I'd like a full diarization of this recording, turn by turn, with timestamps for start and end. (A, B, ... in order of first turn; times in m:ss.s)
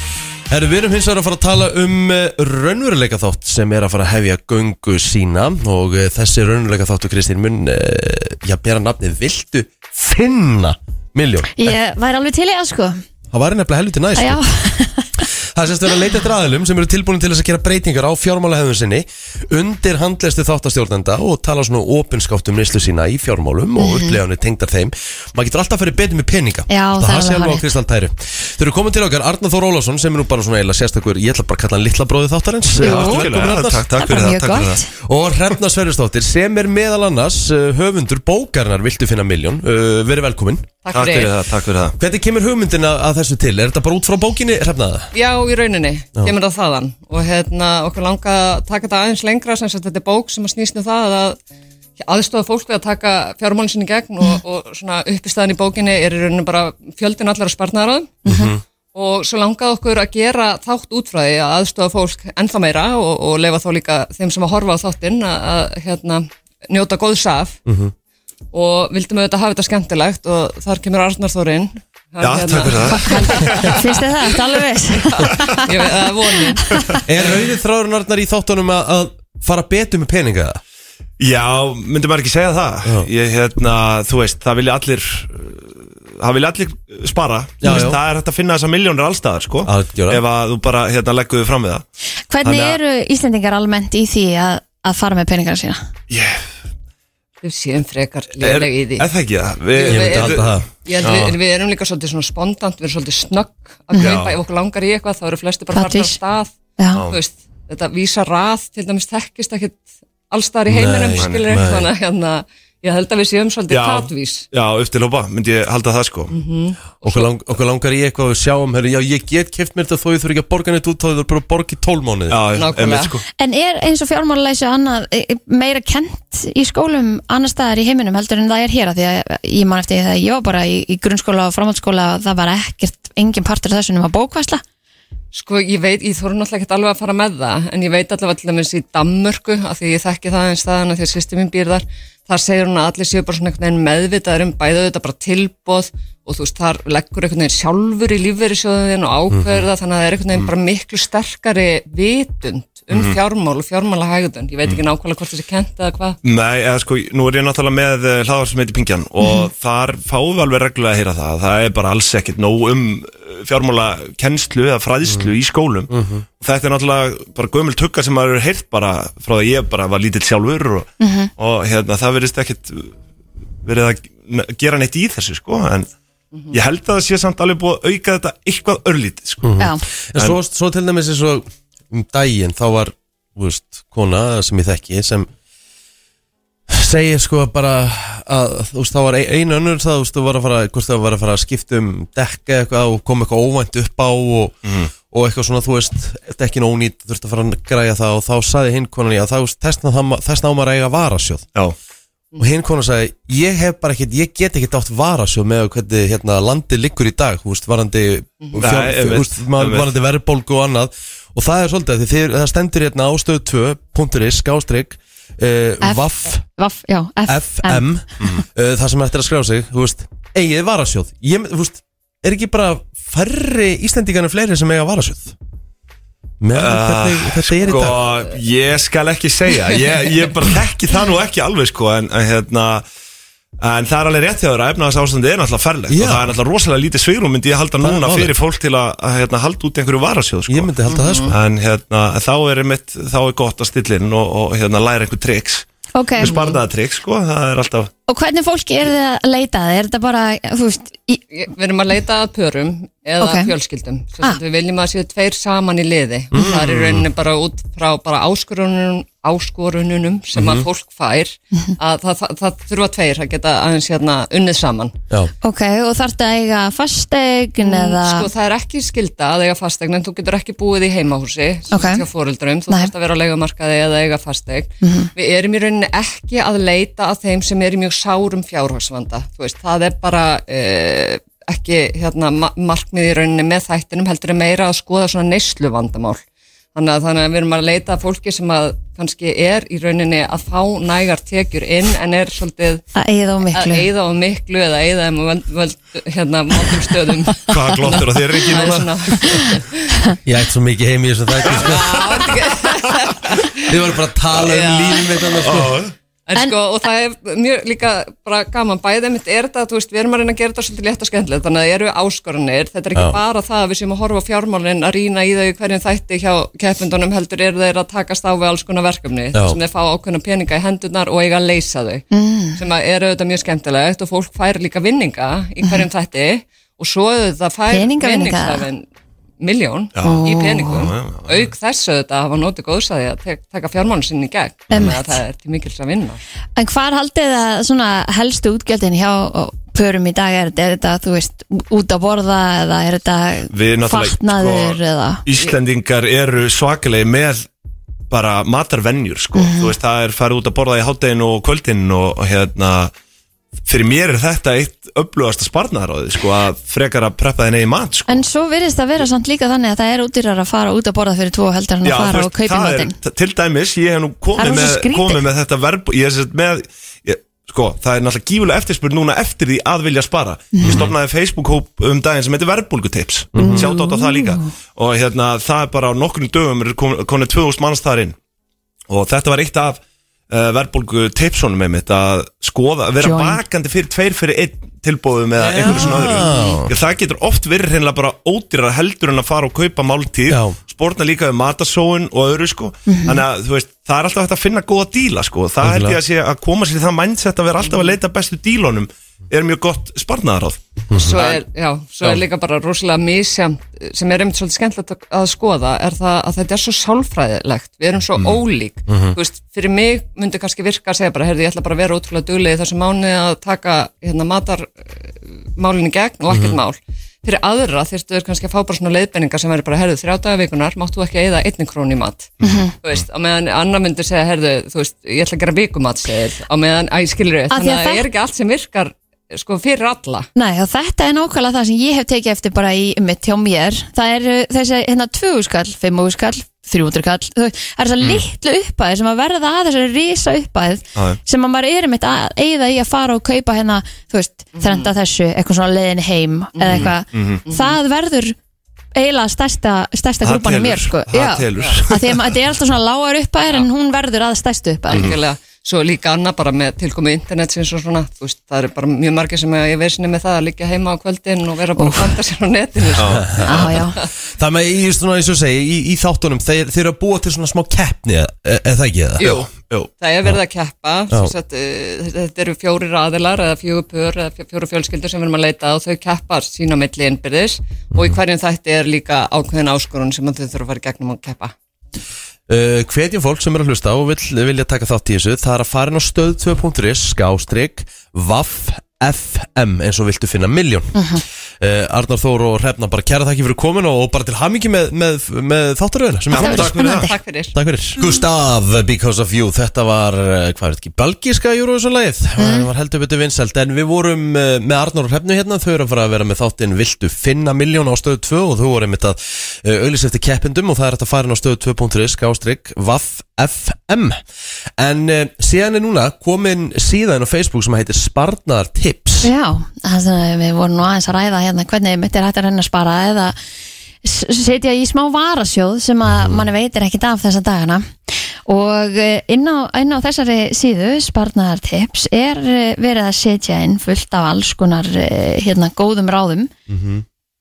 0:00.5-0:11.8 A
0:11.5-0:13.0 B
0:13.3-0:14.4 A
0:14.2-0:15.2 B
0:15.2-0:33.9 A
0:23.8-0:24.2 B
0:26.7-0:27.7 B
0:32.8-0:34.8 C
0:32.8-0:33.3 B
0:34.0-0:34.9 B
0:35.0-0:41.3 A
0:40.8-0:41.3 D
0:40.9-0:42.0 C
0:42.0-0:45.1 A
0:45.1-0:51.4 D
0:52.0-0:58.2 D
0:58.3-0:58.6 A
0:58.3-0:58.5 B
0:58.9-1:07.6 D
1:07.7-1:07.9 A
1:08.5-1:14.0 D
1:12.2-1:13.8 C
1:13.0-1:15.7 B
1:15.2-1:16.7 D
1:16.2-1:17.0 B
1:17.0-1:20.6 A
1:21.2-1:31.8 C
1:27.6-1:28.0 A
1:29.6-1:30.2 A
1:32.3-1:35.8 B
1:32.4-1:32.8 C
1:36.1-1:36.4 C
1:37.4-1:39.1 D
1:38.4-1:41.4 C
1:39.7-1:46.5 D
1:39.8-1:40.7 A
1:43.9-1:44.2 B
1:44.0-1:44.4 C
1:45.7-1:46.2 B
1:46.8-1:47.0 B
1:47.1-1:54.5 D
1:50.7-1:51.9 A
1:51.2-1:51.8 C
1:53.7-1:56.3 C
1:56.3-1:57.3 D
1:57.0-2:02.4 A
2:02.3-2:03.2 C
2:02.5-2:03.2 D
2:03.4-2:14.6 B
2:15.3-2:36.2 D
2:32.9-2:33.2 C
2:36.2-2:52.9 C
2:45.0-2:45.3 A
2:45.9-2:46.2 A
2:51.0-2:51.3 B
2:53.6-2:55.9 C
2:56.5-2:59.5 C
2:59.4-3:05.3 A
2:59.6-2:59.8 B
3:06.7-3:14.6 A
3:14.6-3:14.9 C
3:15.1-3:21.4 A
3:22.4-3:36.4 A
3:28.6-3:29.9 C
3:35.8-3:37.9 B
3:37.3-3:45.3 A
3:46.4-3:48.1 A
3:46.6-3:52.8 C
3:53.6-4:00.7 C
3:55.9-3:56.3 A
3:57.8-3:58.3 A
4:00.5-4:01.3 A
4:00.9-4:01.4 D
4:01.3-4:05.7 C
4:05.9-4:06.4 B
4:06.2-4:07.9 C
4:06.2-4:06.6 D
4:08.1-4:11.2 B
4:11.3-4:25.0 D
4:13.2-4:13.5 B
4:16.3-4:16.7 A
4:16.4-4:17.0 C
4:20.4-4:20.6 A
4:25.4-4:28.3 B
4:27.6-4:46.2 D
4:31.7-4:32.0 B
4:34.8-4:35.1 B
4:46.8-4:52.8 D
4:53.0-4:53.9 B
4:53.5-5:00.1 D
4:57.5-4:59.4 C
4:58.6-4:58.8 A
5:00.2-5:02.2 A
5:01.5-5:03.7 D
5:01.5-5:02.4 C
5:03.7-5:05.8 A
5:04.4-5:05.1 D
5:05.3-5:05.9 C
5:06.3-5:22.0 D
5:19.3-5:19.6 A
5:22.1-5:22.6 B
5:22.6-5:28.8 D
5:25.6-5:25.9 B
5:27.7-5:28.7 B
5:29.4-5:36.2 D
5:30.0-5:31.5 C
5:30.0-5:30.9 B
5:34.7-5:35.0 B
5:36.6-5:45.2 B
5:43.5-5:47.5 C
5:48.1-5:52.9 C
5:49.4-5:49.8 B
5:53.7-5:58.2 C
5:58.1-6:03.0 B
6:01.8-6:18.2 C
6:04.4-6:05.2 B
6:10.5-6:10.9 B
6:10.6-6:10.9 A
6:13.4-6:13.7 A
6:13.4-6:14.5 B
6:18.9-6:41.4 C
6:23.0-6:23.4 B
6:25.4-6:26.8 A
6:25.6-6:26.4 B
6:30.3-6:30.6 A
6:32.9-6:33.2 B
6:35.6-6:36.0 A
6:37.7-6:37.9 D
6:40.9-6:41.2 A
6:40.9-7:10.3 D
6:48.9-6:49.2 A
6:56.3-6:56.6 A
7:02.4-7:03.0 C
7:02.4-7:02.7 B
7:07.5-7:08.1 B
7:10.4-7:28.4 B
7:24.6-7:24.9 D
7:26.6-7:26.9 D
7:26.7-7:27.4 C
7:27.4-7:27.8 D
7:29.0-7:35.1 B
7:30.2-7:32.3 C
7:34.9-7:44.1 D
7:34.9-7:35.2 C
7:41.8-7:42.2 B
7:43.0-7:43.5 C
7:43.0-7:49.3 A
7:43.4-7:44.0 B
7:49.2-7:49.9 C
7:49.2-7:49.5 D
7:50.0-8:01.5 D
7:51.1-7:51.4 A
8:02.5-8:11.0 A
8:11.0-8:11.2 B
8:11.6-8:16.7 A
8:16.3-8:17.1 C
8:16.3-8:17.2 B
8:16.4-8:17.6 D
8:17.5-8:34.2 A
8:22.4-8:22.7 B
8:34.8-8:39.3 A
8:39.2-8:43.4 B
8:44.0-8:47.9 B
8:46.0-8:46.5 A
8:48.5-8:56.5 B
8:56.7-8:57.0 A